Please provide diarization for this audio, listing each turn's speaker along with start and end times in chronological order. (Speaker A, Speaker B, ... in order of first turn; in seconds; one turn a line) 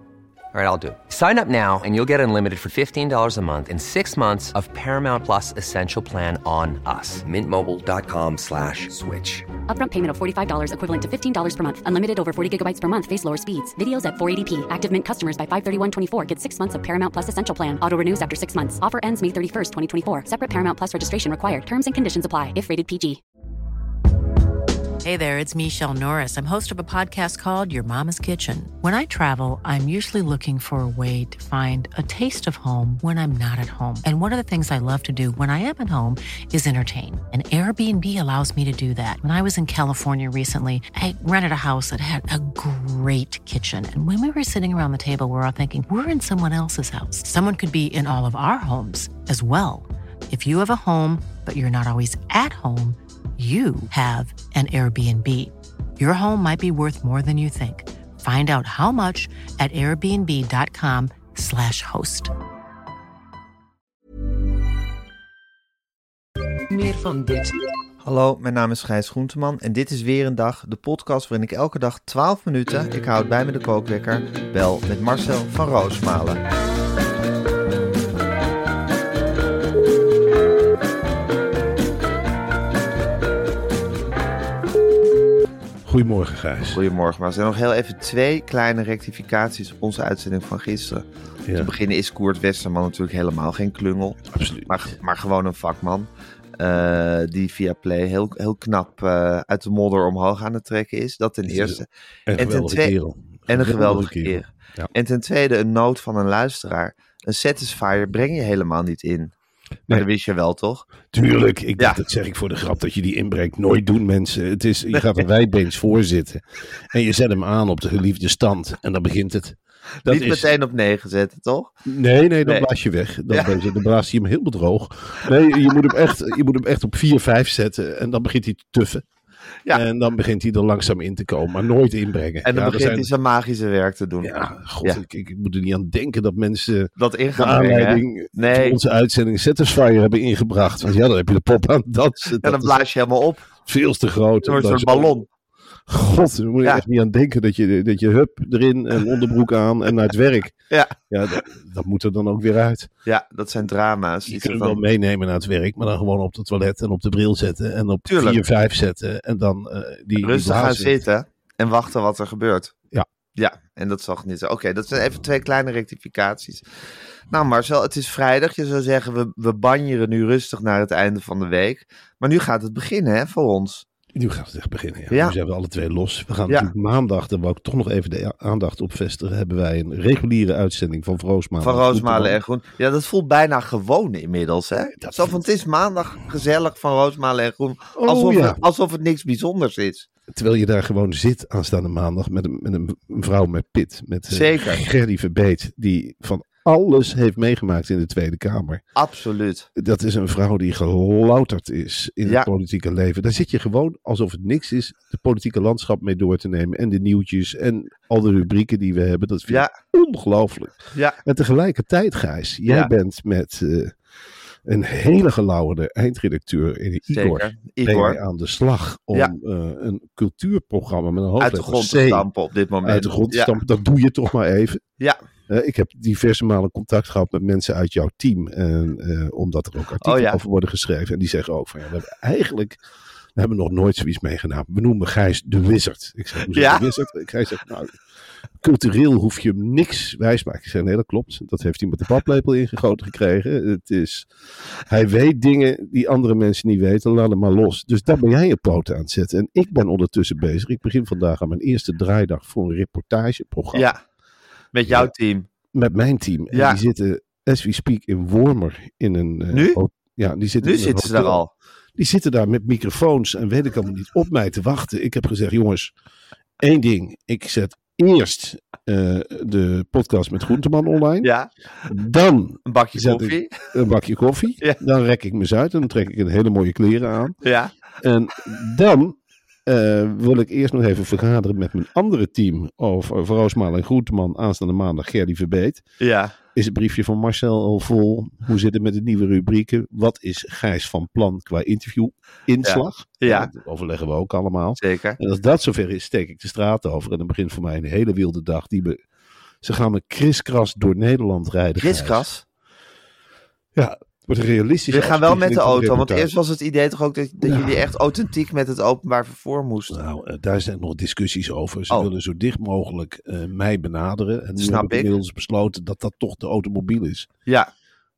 Speaker A: 0.5-9.4
Speaker B: 9.7-23.2
Speaker C: 25.0-62.3
Speaker D: 66.8-67.1
Speaker D: 68.0-76.4
Speaker E: 85.8-86.8
Speaker D: 86.7-102.9
Speaker E: 91.5-91.7
Speaker E: 94.3-95.0
Speaker E: 101.4-104.9
Speaker D: 103.5-109.3
Speaker D: 109.9-110.9
Speaker E: 111.1-120.5
Speaker D: 120.1-121.7
Speaker E: 121.8-129.0
Speaker E: 129.7-133.1
Speaker D: 132.4-135.0
Speaker E: 134.2-142.8
Speaker D: 137.0-138.8
Speaker D: 142.4-143.4
Speaker E: 143.7-145.2
Speaker D: 144.4-145.3
Speaker E: 145.9-150.6
Speaker D: 150.7-150.9
Speaker E: 151.1-152.9
Speaker D: 153.1-154.8
Speaker E: 154.2-161.0
Speaker D: 158.1-158.4
Speaker D: 160.2-162.7
Speaker D: 163.3-166.6
Speaker D: 167.3-173.8
Speaker E: 174.1-182.4
Speaker D: 175.1-175.3
Speaker D: 181.6-190.1
Speaker E: 185.0-185.4
Speaker E: 187.9-188.6
Speaker E: 190.3-198.8
Speaker D: 194.3-194.8
Speaker D: 198.9-199.7
Speaker E: 199.7-213.9
Speaker E: 214.7-222.3
Speaker D: 217.1-218.2
Speaker D: 221.4-223.6
Speaker E: 222.8-224.8
Speaker E: 225.5-232.8
Speaker D: 230.0-230.4
Speaker E: 233.3-238.0
Speaker D: 236.5-236.9
Speaker E: 238.6-244.3
Speaker E: 244.8-253.9
Speaker D: 253.7-254.0
Speaker D: 254.7-255.5
Speaker E: 254.8-255.1
Speaker E: 255.7-261.4
Speaker D: 256.5-256.8
Speaker D: 259.5-259.8
Speaker D: 260.6-261.5
Speaker E: 261.9-265.9
Speaker E: 266.6-271.3
Speaker D: 271.2-271.5
Speaker E: 271.9-277.4
Speaker D: 272.6-273.5
Speaker D: 277.4-277.7
Speaker E: 278.0-285.8
Speaker D: 286.0-286.3
Speaker E: 286.5-299.0
Speaker D: 292.6-293.5
Speaker D: 294.8-295.2
Speaker E: 299.6-302.2
Speaker D: 301.8-302.4
Speaker E: 303.7-306.3
Speaker D: 304.9-310.0
Speaker E: 307.4-307.9
Speaker E: 309.9-317.3
Speaker D: 314.6-315.1